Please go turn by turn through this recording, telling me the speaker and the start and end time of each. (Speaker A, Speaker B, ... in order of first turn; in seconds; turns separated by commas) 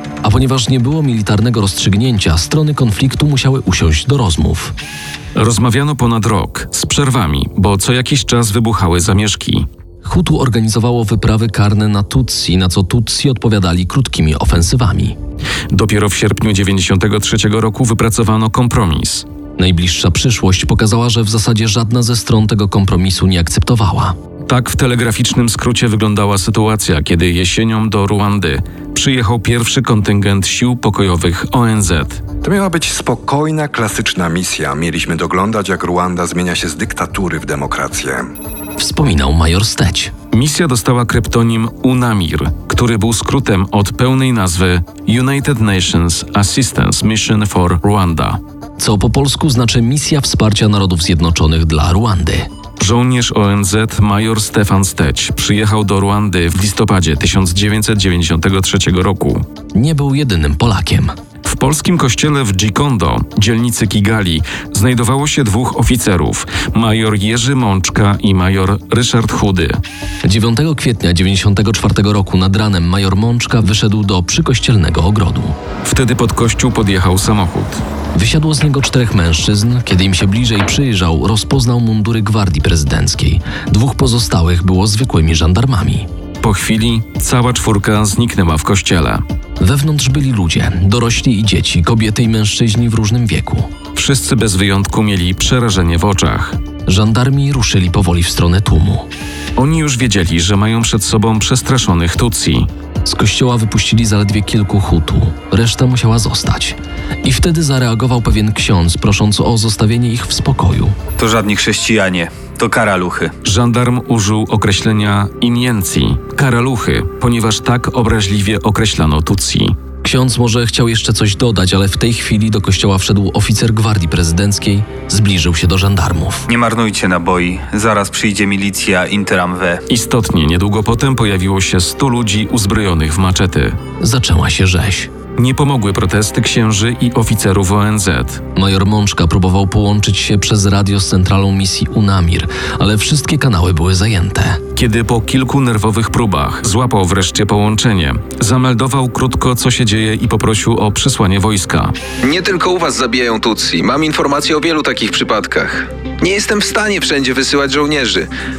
Speaker A: 0.2-4.7, Speaker B: 5.3-9.7, Speaker A: 10.0-15.2, Speaker B: 15.7-19.3, Speaker A: 19.6-24.2, Speaker B: 24.5-32.2, Speaker C: 32.4-38.3, Speaker A: 38.8-40.1, Speaker B: 40.3-48.4, Speaker A: 48.8-52.5, Speaker B: 52.8-59.5, Speaker A: 59.7-61.1, Speaker B: 61.4-69.8, Speaker A: 70.2-75.5, Speaker B: 75.8-77.8, Speaker A: 78.2-86.1, Speaker B: 86.4-89.2, Speaker A: 89.6-93.7, Speaker B: 94.0-96.6, Speaker A: 96.9-99.1, Speaker B: 99.6-102.7, Speaker A: 103.0-111.0, Speaker D: 111.2-113.3, Speaker B: 113.4-119.8, Speaker A: 120.0-126.5, Speaker D: 126.5-129.8, Speaker B: 129.9-133.8, Speaker A: 134.0-135.1, Speaker B: 135.4-138.4, Speaker A: 138.6-144.6, Speaker B: 144.8-151.9, Speaker E: 152.2-158.3